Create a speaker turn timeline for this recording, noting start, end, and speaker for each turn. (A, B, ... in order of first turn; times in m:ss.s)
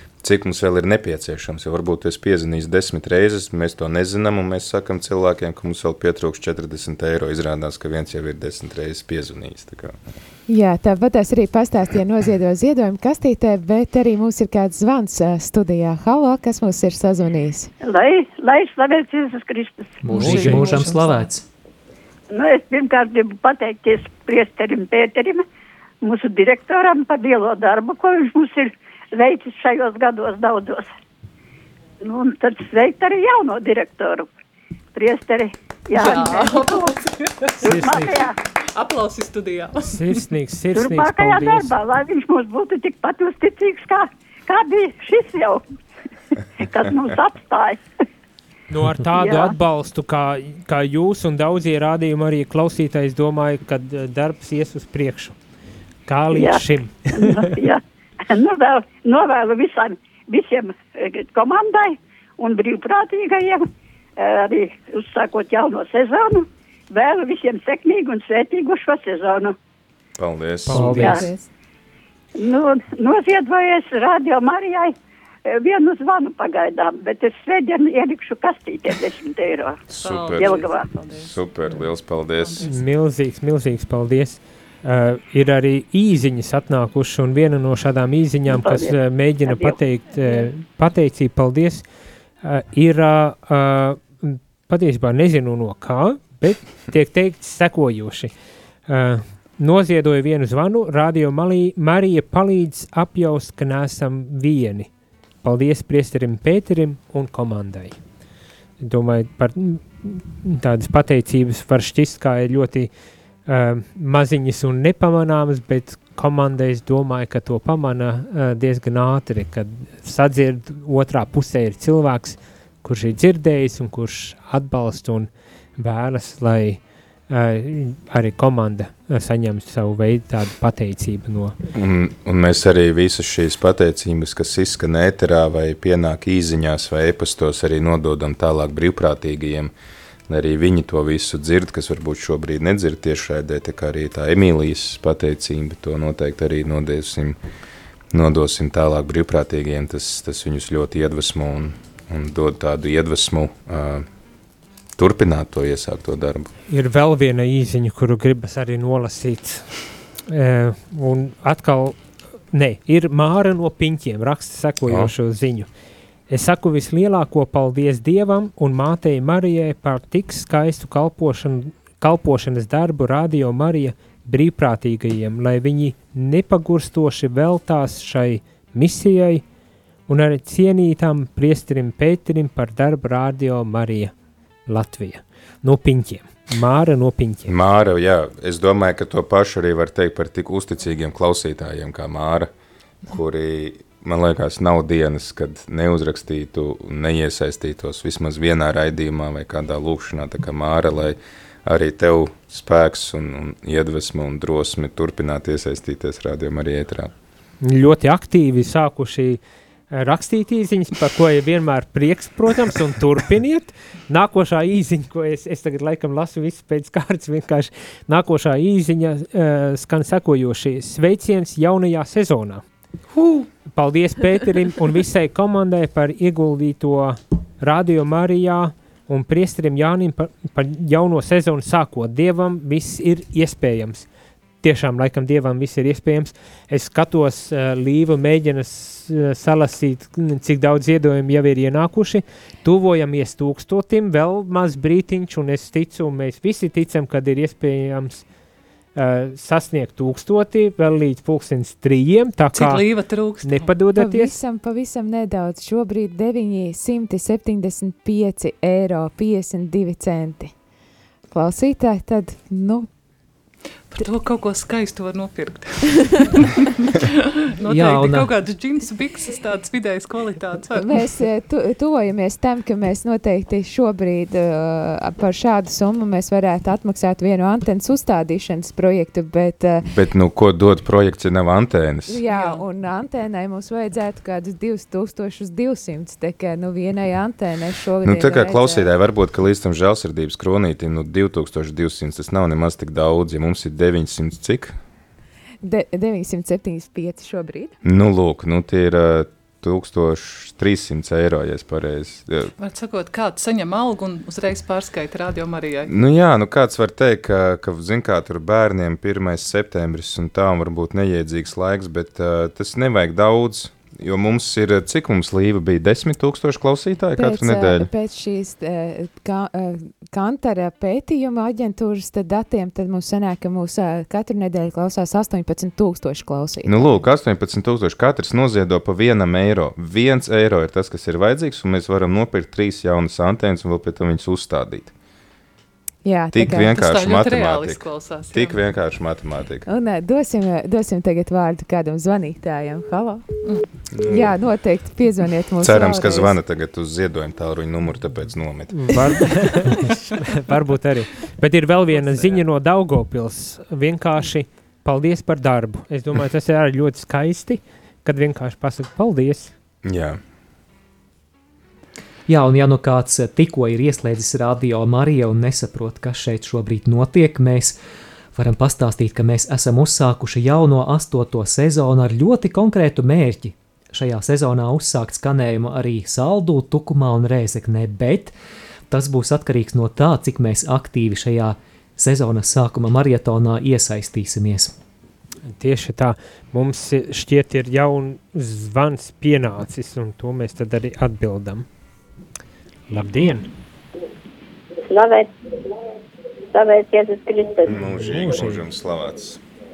0:00.2-0:09.9 A
0:10.5-0:17.7 B
0:17.8-0:20.8 C
0:20.0-0:21.4 D
0:20.1-0:21.3 E
0:22.3-0:25.4 C
0:26.0-0:30.8 C
0:32.0-0:34.3 C
0:35.0-0:36.9 C
0:35.9-0:37.5 E
0:37.6-0:38.2 F
0:37.6-0:38.3 C
0:38.7-0:40.2 E
0:39.8-0:41.7 F
0:40.7-0:45.6 C
0:46.6-0:47.8 C
0:48.7-0:55.4 F
0:49.1-0:49.5 C
0:56.1-0:57.5 F
0:56.3-0:57.8 C
0:58.3-1:03.6 C
1:04.2-1:09.5 C
1:10.2-1:11.2 A
1:10.7-1:11.3 D
1:10.7-1:11.5 B
1:10.9-1:11.3 C
1:12.4-1:14.9 C
1:15.5-1:19.8 C
1:19.9-1:22.6 A
1:20.0-1:22.8 E
1:20.4-1:20.8 C
1:22.6-1:31.8 F
1:28.5-1:28.9 C
1:29.4-1:30.5 C
1:32.4-1:38.3 F
1:38.9-1:44.9 F
1:45.4-1:48.0 F
1:48.8-1:52.9 F
1:53.5-2:11.6 F
2:11.7-2:19.7 A
2:20.3-2:27.4 A
2:28.1-2:34.0 A
2:35.0-2:36.5 A
2:36.7-2:42.0 F
2:42.5-2:45.7 F
2:44.8-2:45.1 A
2:46.3-2:59.4 F
3:00.1-3:04.1 F
3:04.7-3:07.5 F
3:07.5-3:12.5 A
3:13.1-3:27.1 A
3:27.6-3:42.6 F
3:43.2-3:43.5 E
3:43.7-3:54.1 F
3:54.6-4:08.3 F
4:08.9-4:12.9 F
4:12.5-4:13.7 E
4:13.4-4:14.3 F
4:13.9-4:20.5 B
4:21.3-4:22.9 B
4:23.9-4:31.0 E
4:27.6-4:28.3 D
4:30.8-4:39.8 B
4:39.9-4:42.2 A
4:42.1-4:48.9 B
4:42.3-4:42.6 E
4:48.0-4:54.7 A
4:55.6-4:57.7 B
4:57.8-5:02.5 A
5:02.6-5:05.9 E
5:05.9-5:17.9 A
5:17.2-5:27.0 B
5:26.6-5:34.9 A
5:36.0-5:36.8 B
5:36.3-5:39.7 A
5:36.7-5:38.6 E
5:39.7-5:43.2 B
5:43.9-5:44.4 A
5:44.0-5:46.4 B
5:45.6-5:49.6 A
5:48.7-5:59.5 F
5:59.8-6:00.2 A
6:02.3-6:07.8 D
6:08.3-6:18.3 D
6:18.9-6:24.7 D
6:25.5-6:31.6 F
6:32.9-6:33.5 F
6:34.9-6:35.3 C
6:36.5-6:37.8 C
6:37.6-6:39.4 A
6:37.9-6:38.6 F